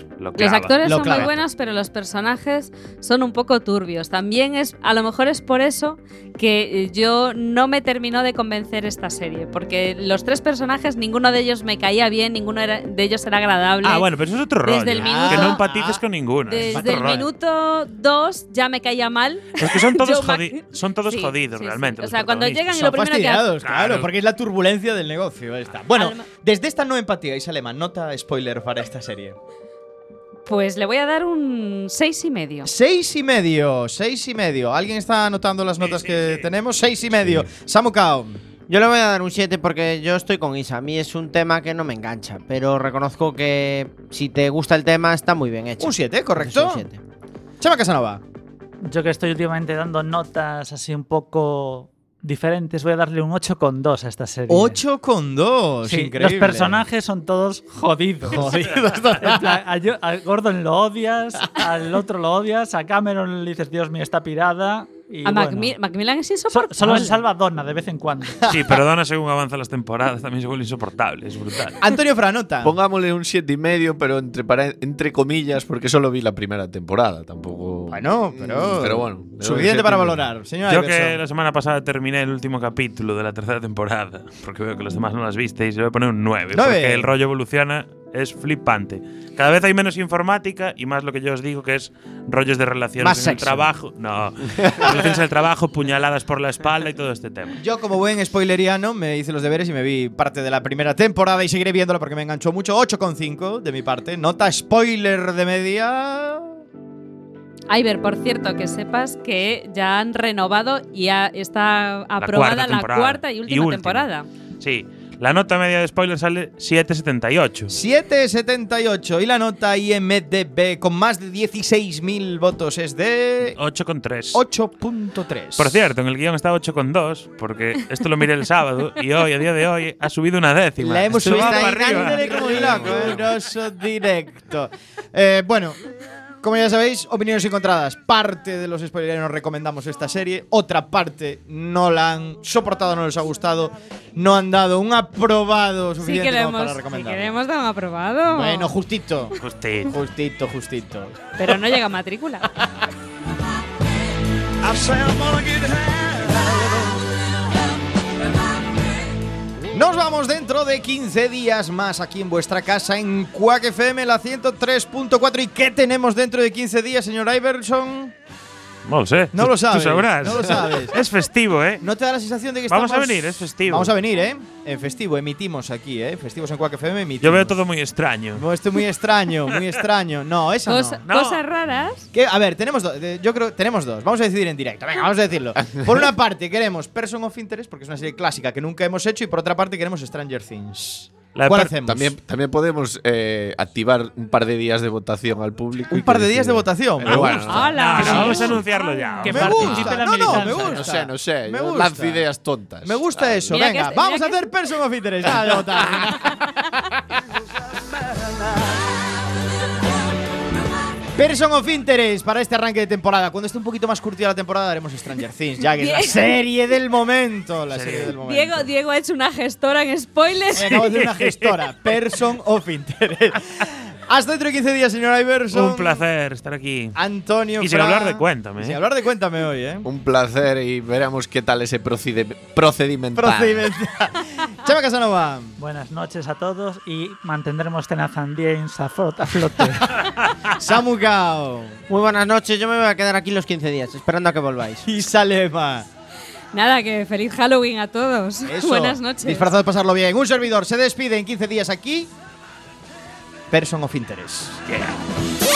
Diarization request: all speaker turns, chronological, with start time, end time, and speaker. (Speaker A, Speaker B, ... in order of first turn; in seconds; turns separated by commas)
Speaker A: 0.2-1.3, Speaker B: 0.4-14.1, Speaker C: 0.8-1.4, Speaker A: 13.8-17.3, Speaker B: 14.6-15.7, Speaker C: 15.0-16.0, Speaker B: 16.5-23.5, Speaker C: 16.6-17.1, Speaker A: 19.6-22.7, Speaker C: 22.7-29.4, Speaker A: 23.6-24.1, Speaker B: 25.9-26.3, Speaker B: 30.5-32.7, Speaker C: 32.6-38.4, Speaker A: 35.8-36.5, Speaker D: 38.7-47.0, Speaker C: 45.8-46.8, Speaker C: 47.6-48.2, Speaker E: 48.8-54.8, Speaker C: 54.5-56.8, Speaker E: 55.8-65.7, Speaker C: 58.2-59.5, Speaker B: 65.2-67.2, Speaker E: 66.5-68.5, Speaker C: 68.4-68.7, Speaker A: 68.5-71.8, Speaker C: 71.8-72.7, Speaker F: 72.6-80.3, Speaker C: 77.9-81.2, Speaker A: 80.7-97.6, Speaker C: 86.5-87.1, Speaker D: 93.0-93.7, Speaker C: 97.6-106.5, Speaker B: 107.7-114.3, Speaker A: 112.2-114.0, Speaker A: 114.6-117.7, Speaker C: 117.7-123.6, Speaker A: 123.5-124.4, Speaker C: 124.3-125.8, Speaker A: 125.6-133.3, Speaker C: 130.8-135.8, Speaker D: 130.9-133.2, Speaker C: 136.4-147.3, Speaker B: 146.0-148.7, Speaker C: 148.3-151.3, Speaker A: 149.4-149.9, Speaker B: 151.4-152.5, Speaker C: 154.6-156.9, Speaker C: 159.7-168.1, Speaker A: 168.9-171.8, Speaker C: 169.3-171.0, Speaker C: 171.8-177.5, Speaker A: 172.7-173.9, Speaker A: 177.2-178.4, Speaker C: 178.3-181.0, Speaker B: 180.7-182.1, Speaker A: 181.1-181.4, Speaker C: 182.1-192.1, Speaker A: 191.3-191.7, Speaker F: 191.9-198.5, Speaker C: 195.9-198.6, Speaker A: 197.0-200.4, Speaker B: 197.5-199.6, Speaker E: 199.2-201.0, Speaker C: 199.2-202.2, Speaker F: 200.3-203.6, Speaker C: 202.8-206.7, Speaker B: 203.5-204.4, Speaker C: 211.1-218.7, Speaker B: 215.8-216.4, Speaker A: 217.7-218.1, Speaker B: 217.9-220.9, Speaker C: 220.5-226.0, Speaker A: 220.9-221.6, Speaker A: 225.5-226.9, Speaker C: 226.9-229.9, Speaker A: 227.6-228.8, Speaker F: 229.8-233.7, Speaker C: 233.2-235.5, Speaker E: 235.6-239.9, Speaker C: 240.5-241.8, Speaker D: 241.9-244.9, Speaker C: 244.9-245.9, Speaker B: 246.5-249.5, Speaker C: 248.5-252.1, Speaker C: 253.5-254.6